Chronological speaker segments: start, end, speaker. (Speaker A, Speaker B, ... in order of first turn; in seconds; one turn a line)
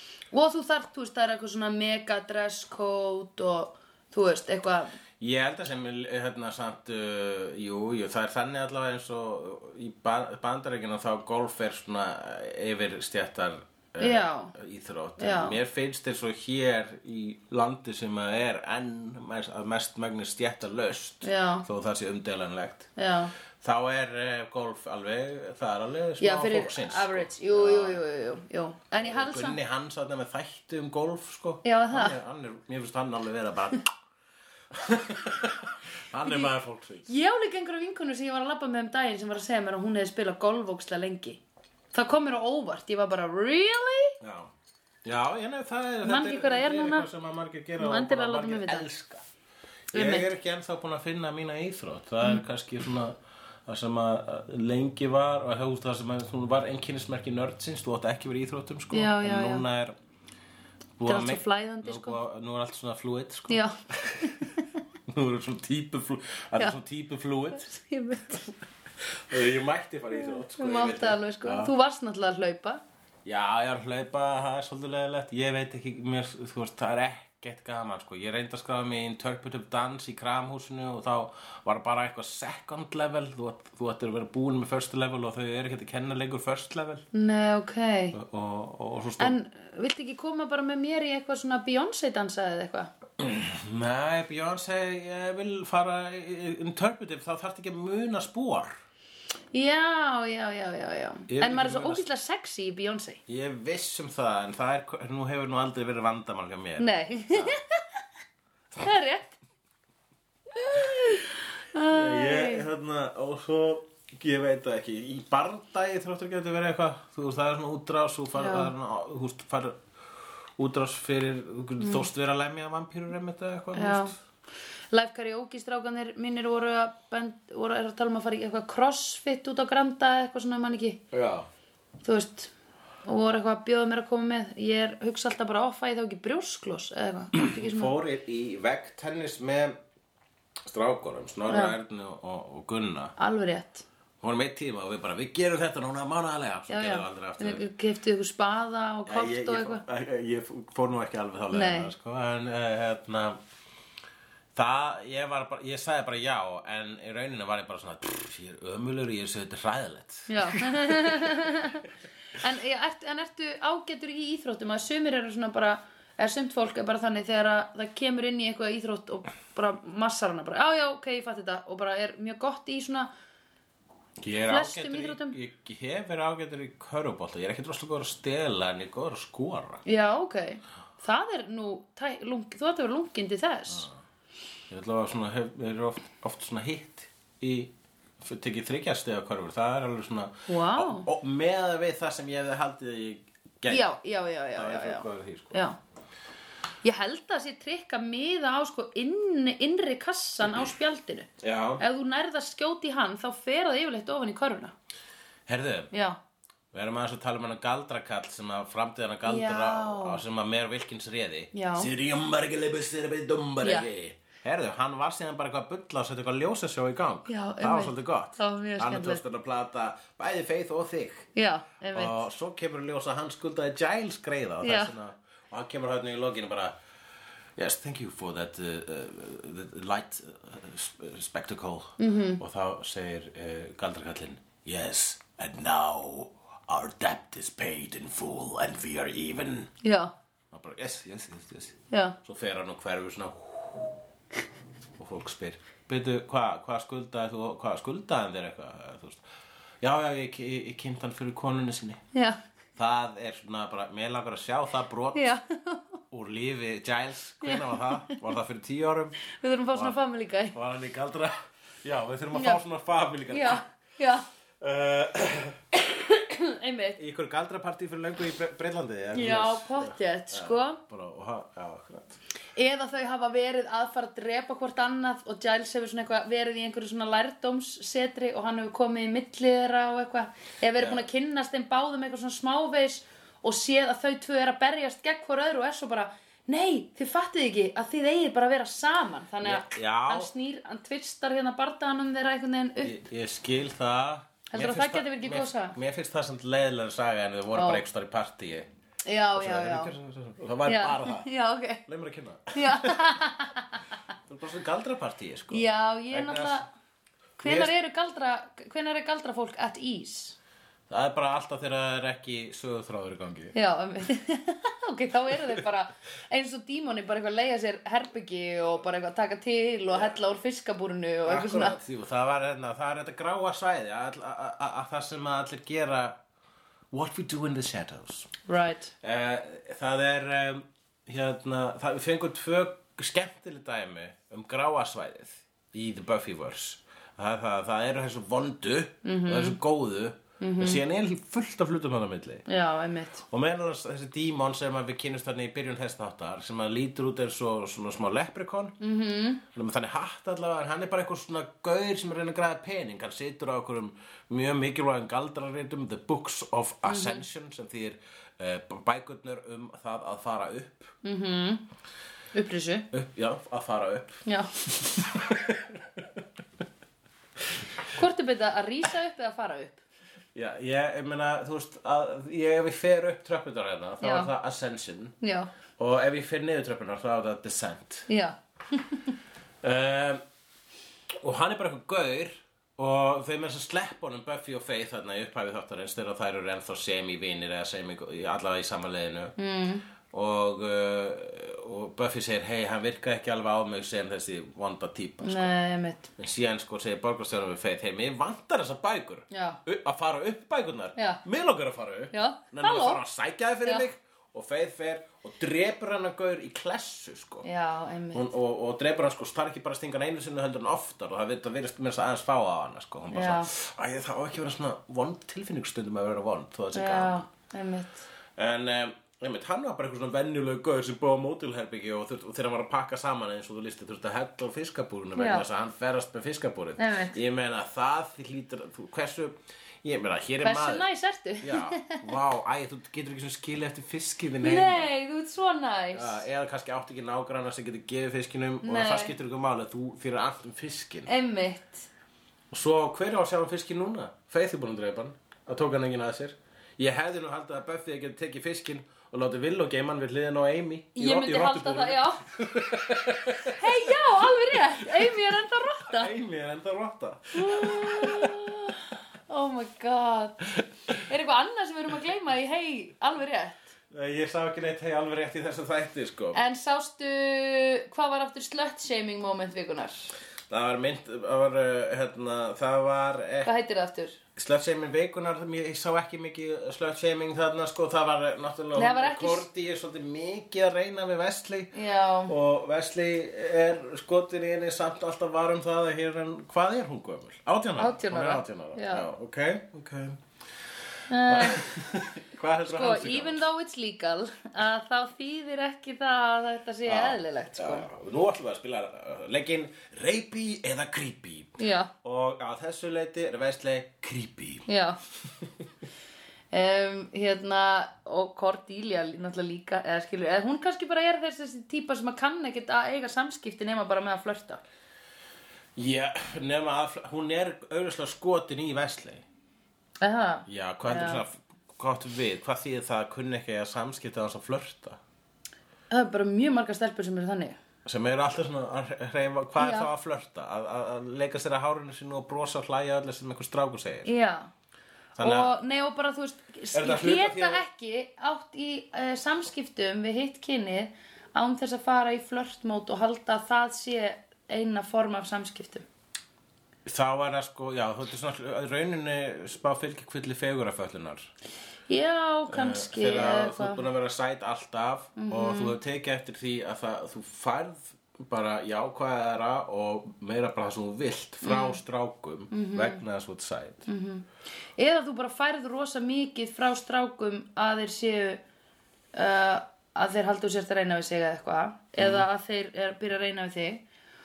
Speaker A: 0.3-5.0
Speaker B: 5.2-22.9
Speaker A: 14.0-14.5
Speaker A: 15.2-15.6
Speaker A: 21.2-21.6
Speaker A: 22.9-23.3
Speaker B: 23.6-28.0
Speaker A: 26.2-29.6
Speaker B: 29.0-33.9
Speaker A: 31.6-32.2
Speaker B: 34.7-37.1
Speaker A: 37.1-41.4
Speaker A: 41.9-44.2
Speaker B: 44.2-44.5
Speaker B: 45.0-49.2
Speaker A: 46.0-47.1
Speaker A: 47.8-48.8
Speaker B: 49.9-59.9
Speaker A: 49.9-50.3
Speaker A: 58.9-59.6
Speaker B: 61.0-64.5
Speaker A: 61.0-62.2
Speaker A: 63.5-64.7
Speaker B: 65.1-67.7
Speaker A: 67.5-68.5
Speaker B: 69.0-71.7
Speaker A: 70.2-72.8
Speaker B: 73.2-87.0
Speaker A: 87.1-88.2
Speaker B: 88.1-89.3
Speaker A: 89.2-92.9
Speaker B: 93.2-98.7
Speaker A: 99.5-103.2
Speaker B: 101.3-102.0
Speaker B: 103.3-107.6
Speaker A: 106.8-107.8
Speaker A: 108.8-109.4
Speaker A: 110.5-112.7
Speaker B: 111.9-119.8
Speaker A: 118.4-118.7
Speaker B: 120.6-124.1
Speaker A: 121.8-122.1
Speaker A: 123.7-124.1
Speaker A: 124.9-131.0
Speaker B: 131.1-131.5
Speaker A: 132.0-132.5
Speaker A: 133.0-137.9
Speaker B: 137.3-139.8
Speaker B: 140.7-143.1
Speaker A: 141.5-141.7
Speaker A: 143.2-143.8
Speaker B: 144.2-147.7
Speaker A: 146.7-149.8
Speaker B: 149.1-153.4
Speaker A: 151.5-151.9
Speaker B: 154.5-161.4
Speaker A: 160.3-173.1
Speaker B: 174.2-179.8
Speaker A: 174.5-175.3
Speaker A: 179.8-183.9
Speaker B: 184.7-193.9
Speaker A: 190.5-191.1
Speaker A: 193.7-195.8
Speaker B: 194.5-195.6
Speaker A: 196.8-204.7
Speaker B: 201.4-201.8
Speaker B: 205.5-205.9
Speaker A: 205.9-206.2
Speaker B: 206.7-221.3
Speaker A: 209.2-210.2
Speaker A: 211.5-211.9
Speaker A: 213.6-213.9
Speaker A: 217.3-219.2
Speaker A: 221.3-222.2
Speaker B: 221.9-226.7
Speaker A: 224.6-224.9
Speaker B: 227.6-239.7
Speaker A: 232.0-232.4
Speaker A: 239.8-240.1
Speaker B: 240.5-243.9
Speaker A: 241.9-242.2
Speaker B: 245.0-249.2
Speaker B: 249.8-252.0
Speaker A: 252.1-252.4
Speaker B: 252.8-255.3
Speaker A: 255.1-256.0
Speaker B: 256.1-259.2
Speaker A: 257.4-258.2
Speaker A: 259.3-260.6
Speaker B: 260.5-263.6
Speaker A: 262.3-262.6
Speaker A: 263.3-264.3
Speaker B: 264.6-265.6
Speaker A: 265.9-267.0
Speaker B: 267.0-272.2
Speaker A: 269.1-270.8
Speaker A: 272.6-293.0
Speaker B: 280.7-281.1
Speaker B: 289.4-290.3
Speaker B: 292.8-298.7
Speaker A: 294.5-295.8
Speaker A: 297.5-297.8
Speaker A: 299.1-299.9
Speaker B: 299.3-301.2
Speaker A: 300.6-301.9
Speaker B: 301.9-303.2
Speaker A: 302.5-303.8
Speaker B: 304.3-306.6
Speaker A: 305.5-306.7
Speaker A: 307.4-310.4
Speaker B: 307.4-307.7
Speaker B: 310.9-313.5
Speaker A: 313.5-321.8
Speaker B: 321.2-326.2
Speaker B: 326.9-328.3
Speaker A: 328.4-328.9
Speaker B: 329.0-342.4
Speaker A: 339.0-339.6
Speaker A: 340.4-340.8
Speaker A: 342.5-343.2
Speaker B: 343.3-348.8
Speaker A: 348.8-349.4
Speaker B: 349.5-360.9
Speaker A: 356.9-357.2
Speaker A: 361.0-361.6
Speaker A: 362.3-362.9
Speaker B: 362.9-366.2
Speaker A: 367.9-369.8
Speaker B: 370.3-375.1
Speaker A: 374.0-374.3
Speaker A: 375.2-375.5
Speaker B: 375.8-378.1
Speaker A: 378.1-379.2
Speaker B: 379.6-380.2
Speaker B: 381.2-389.3
Speaker A: 389.4-389.8
Speaker B: 390.1-395.5
Speaker A: 395.2-396.1
Speaker B: 396.2-407.4
Speaker A: 399.3-399.6
Speaker A: 400.9-401.2
Speaker A: 402.1-403.0
Speaker A: 407.4-408.3
Speaker B: 408.1-417.2
Speaker A: 413.1-413.5
Speaker A: 416.7-418.0
Speaker B: 418.4-430.9
Speaker A: 425.1-425.4
Speaker A: 426.8-427.2
Speaker A: 430.4-432.1
Speaker B: 431.4-434.9
Speaker A: 434.4-436.2
Speaker B: 435.9-441.1
Speaker A: 438.6-439.1
Speaker A: 441.1-441.9
Speaker B: 442.5-455.2
Speaker A: 450.9-452.2
Speaker A: 453.4-456.1
Speaker B: 455.9-458.5
Speaker A: 457.3-463.7
Speaker B: 463.9-466.4
Speaker A: 466.3-470.1
Speaker B: 470.5-473.5
Speaker A: 473.4-474.2
Speaker B: 474.4-481.7
Speaker A: 478.7-479.4
Speaker A: 481.7-482.3
Speaker B: 482.2-490.2
Speaker A: 487.8-489.1
Speaker A: 491.1-491.7
Speaker B: 491.2-493.4
Speaker A: 492.6-497.9
Speaker B: 496.8-504.7
Speaker A: 501.6-501.9
Speaker A: 504.7-505.0
Speaker A: 506.5-514.6
Speaker B: 515.8-519.2
Speaker A: 520.0-521.2
Speaker B: 520.5-525.0
Speaker A: 525.9-527.6
Speaker B: 527.8-534.1
Speaker A: 529.6-529.9
Speaker A: 534.0-534.5
Speaker B: 535.1-535.5
Speaker A: 535.1-545.9
Speaker B: 536.7-537.6
Speaker B: 546.8-551.3
Speaker A: 551.9-553.9
Speaker B: 552.5-563.9
Speaker A: 555.2-555.8
Speaker A: 561.4-561.8
Speaker A: 562.5-563.0
Speaker A: 563.9-564.2
Speaker A: 564.8-568.4
Speaker A: 569.1-573.8
Speaker B: 572.0-572.3